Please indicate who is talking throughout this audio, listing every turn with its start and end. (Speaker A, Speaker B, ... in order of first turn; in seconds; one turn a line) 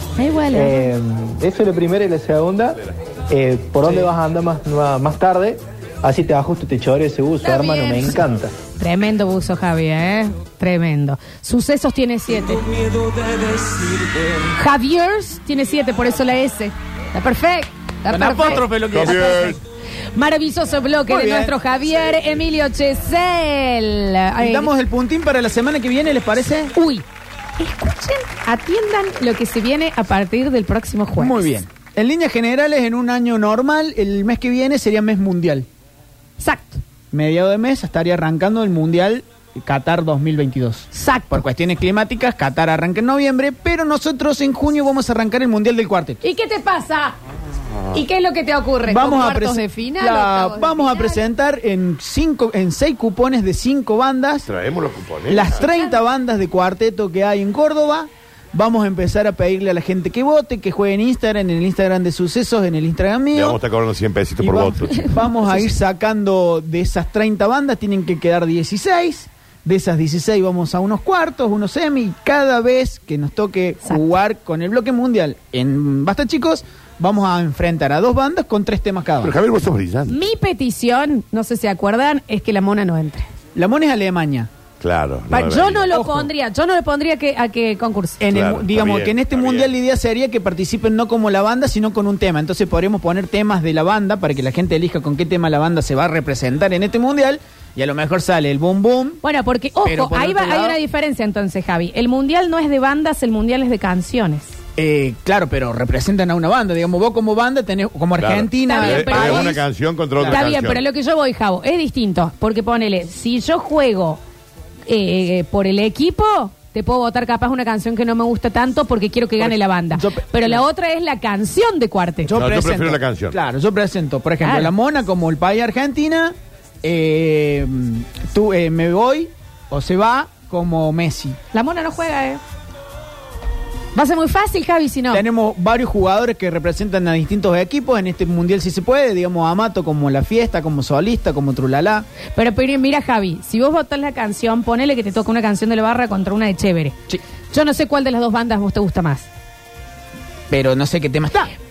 Speaker A: 0.2-0.9
Speaker B: 0.5-8.5
Speaker C: 3.8-4.1
Speaker A: 7.4-8.2
Speaker A: 8.8-12.6
Speaker A: 14.5-19.3
Speaker C: 18.1-19.6
Speaker D: 18.9-19.6
Speaker A: 20.1-24.7
Speaker C: 21.1-22.0
Speaker C: 24.4-26.7
Speaker A: 26.7-27.0
Speaker A: 27.6-31.5
Speaker C: 31.2-35.6
Speaker A: 36.4-36.8
Speaker C: 37.1-46.2
Speaker A: 40.9-41.4
Speaker A: 46.2-47.1
Speaker A: 47.9-51.2
Speaker C: 48.9-54.5
Speaker D: 54.5-55.7
Speaker C: 55.3-63.6
Speaker A: 55.5-56.0
Speaker D: 63.3-65.1
Speaker C: 64.4-79.3
Speaker A: 64.9-65.7
Speaker A: 73.8-74.2
Speaker D: 79.2-80.1
Speaker A: 80.1-83.3
Speaker C: 83.5-84.5
Speaker D: 84.8-85.9
Speaker A: 85.3-88.2
Speaker C: 85.9-86.3
Speaker C: 88.2-99.2
Speaker D: 88.3-89.7
Speaker A: 99.2-104.5
Speaker C: 99.8-100.8
Speaker C: 104.8-109.6
Speaker D: 108.2-110.8
Speaker A: 108.7-109.6
Speaker C: 110.2-110.5
Speaker A: 110.2-114.2
Speaker A: 114.9-122.3
Speaker C: 119.4-120.6
Speaker C: 122.2-131.4
Speaker D: 122.3-123.4
Speaker A: 124.4-124.7
Speaker A: 131.5-132.4
Speaker A: 133.9-135.2
Speaker C: 135.1-142.1
Speaker A: 142.3-146.9
Speaker A: 147.5-149.3
Speaker C: 150.5-151.5